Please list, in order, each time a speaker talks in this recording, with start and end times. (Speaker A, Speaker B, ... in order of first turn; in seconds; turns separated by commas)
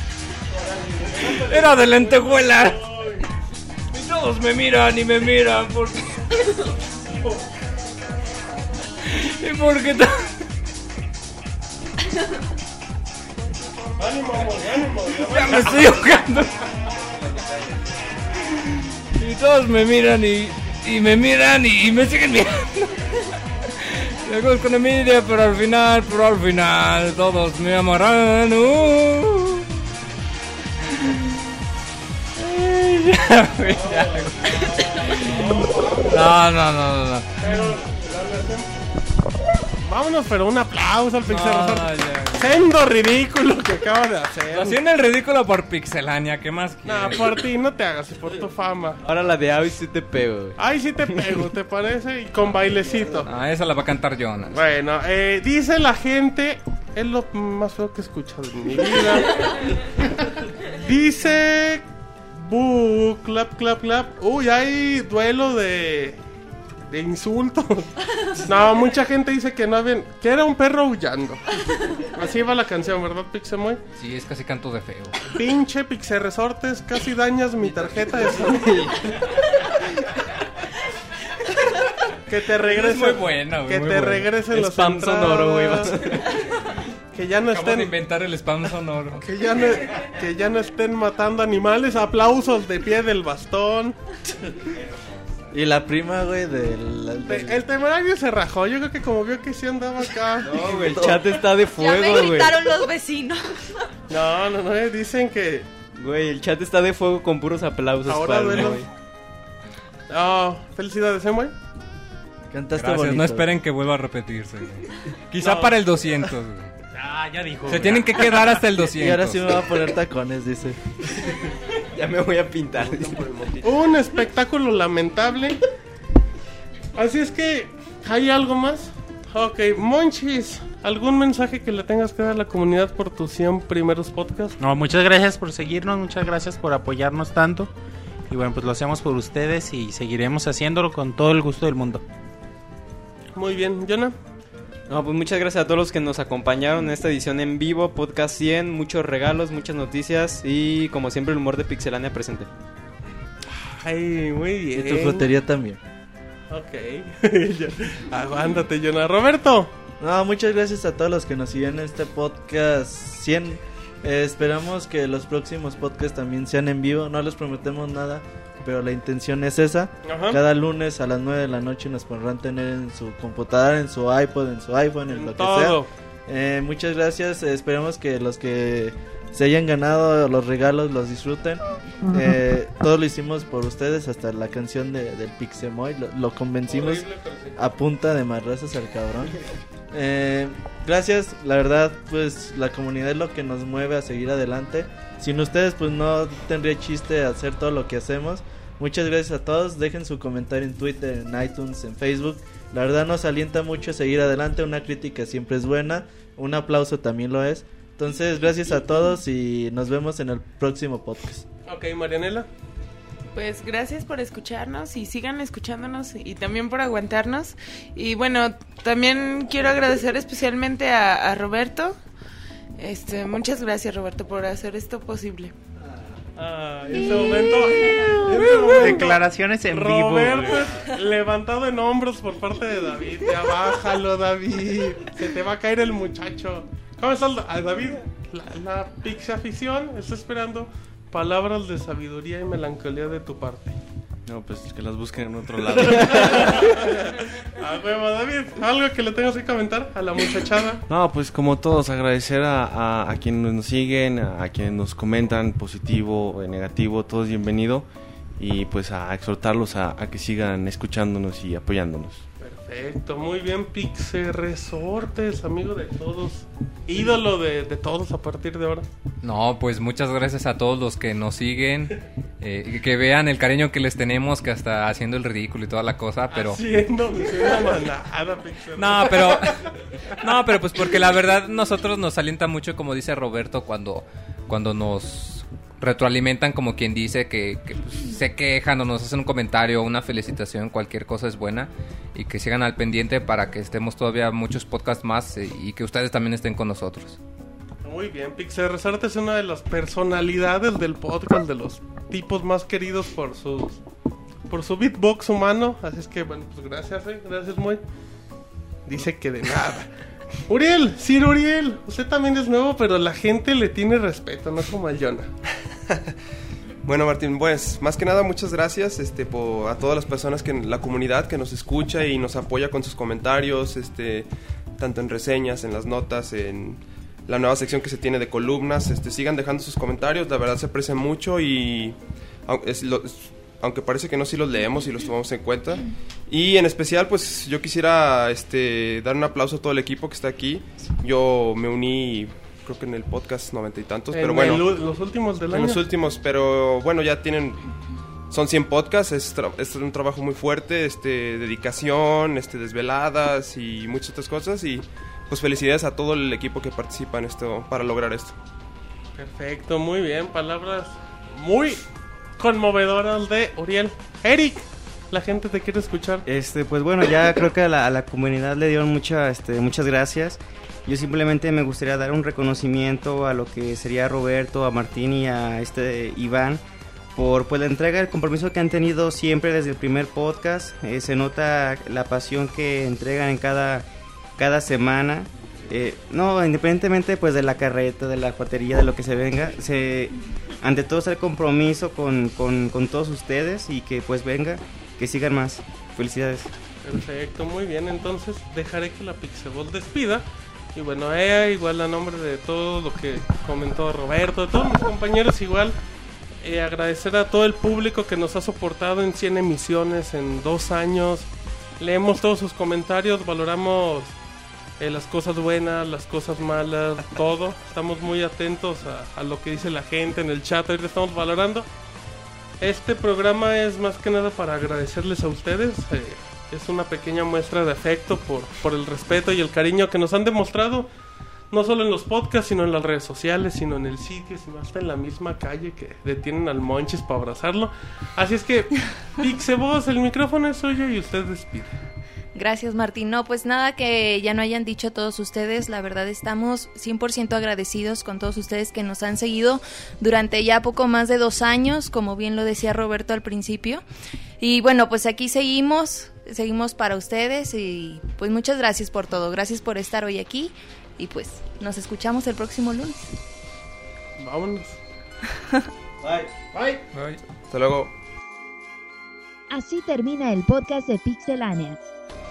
Speaker A: 0.6-3.2, Speaker B: 1.1-2.9, Speaker B: 3.9-6.5, Speaker B: 9.1-10.4, Speaker A: 14.0-16.0, Speaker B: 15.1-16.7, Speaker B: 19.1-23.1, Speaker B: 23.8-29.7, Speaker B: 32.4-37.7, Speaker A: 34.1-36.3, Speaker A: 37.4-38.8, Speaker A: 39.8-44.8, Speaker B: 41.2-42.6, Speaker B: 44.5-47.4, Speaker A: 46.8-49.0, Speaker C: 49.0-50.6, Speaker A: 50.6-53.3, Speaker B: 53.2-54.6, Speaker A: 54.5-59.7, Speaker A: 60.7-61.8, Speaker A: 62.3-66.2, Speaker A: 66.9-73.8, Speaker B: 74.0-75.4, Speaker A: 75.3-78.9, Speaker C: 77.6-79.3, Speaker A: 82.3-86.1, Speaker B: 82.6-84.3, Speaker C: 84.5-86.5, Speaker A: 87.1-87.9, Speaker B: 87.5-89.2, Speaker A: 89.1-94.0, Speaker D: 95.5-97.6, Speaker A: 97.2-101.2, Speaker C: 100.4-102.5, Speaker D: 100.7-101.2, Speaker E: 101.7-103.8, Speaker A: 104.1-105.7, Speaker C: 105.9-108.9, Speaker A: 108.0-108.9, Speaker A: 110.1-111.5, Speaker D: 112.5-113.5, Speaker B: 112.7-116.7, Speaker A: 115.4-115.8, Speaker F: 116.9-118.5, Speaker B: 117.7-119.4, Speaker D: 119.0-120.8, Speaker C: 121.9-123.5, Speaker A: 123.6-125.6, Speaker A: 127.0-134.6, Speaker F: 134.6-137.7, Speaker F: 138.3-142.0, Speaker A: 143.3-144.1, Speaker C: 144.9-152.5, Speaker A: 153.5-155.3, Speaker D: 154.7-155.8, Speaker A: 156.5-159.7, Speaker D: 160.0-211.4, Speaker A: 170.0-170.4, Speaker A: 175.1-175.9, Speaker A: 186.7-187.5, Speaker A: 211.7-212.5, Speaker G: 213.3-222.0, Speaker G: 222.8-225.5, Speaker A: 226.4-243.8, Speaker E: 227.3-228.1, Speaker F: 228.7-230.6, Speaker H: 244.2-246.7, Speaker A: 245.8-250.8, Speaker H: 250.9-257.9, Speaker H: 258.4-262.2, Speaker A: 262.4-268.9, Speaker B: 269.2-276.6, Speaker A: 276.3-279.6, Speaker B: 278.8-297.2, Speaker A: 297.8-303.8, Speaker A: 304.5-307.8, Speaker A: 308.9-309.9, Speaker A: 310.5-315.3, Speaker I: 316.8-344.7, Speaker A: 344.1-345.9, Speaker I: 345.5-347.6, Speaker I: 348.3-358.3, Speaker A: 359.2-361.8, Speaker A: 362.4-366.2, Speaker J: 366.2-376.6, Speaker J: 377.1-383.8, Speaker J: 384.4-396.5, Speaker A: 396.8-400.2, Speaker A: 400.7-405.8, Speaker A: 406.4-411.3, Speaker A: 411.8-414.1, Speaker A: 414.8-421.7, Speaker A: 422.6-430.9, Speaker A: 431.5-441.7, Speaker E: 442.3-453.8, Speaker E: 454.4-463.1, Speaker A: 464.2-464.8, Speaker D: 466.0-466.3, Speaker I: 467.5-467.9, Speaker K: 469.5-471.9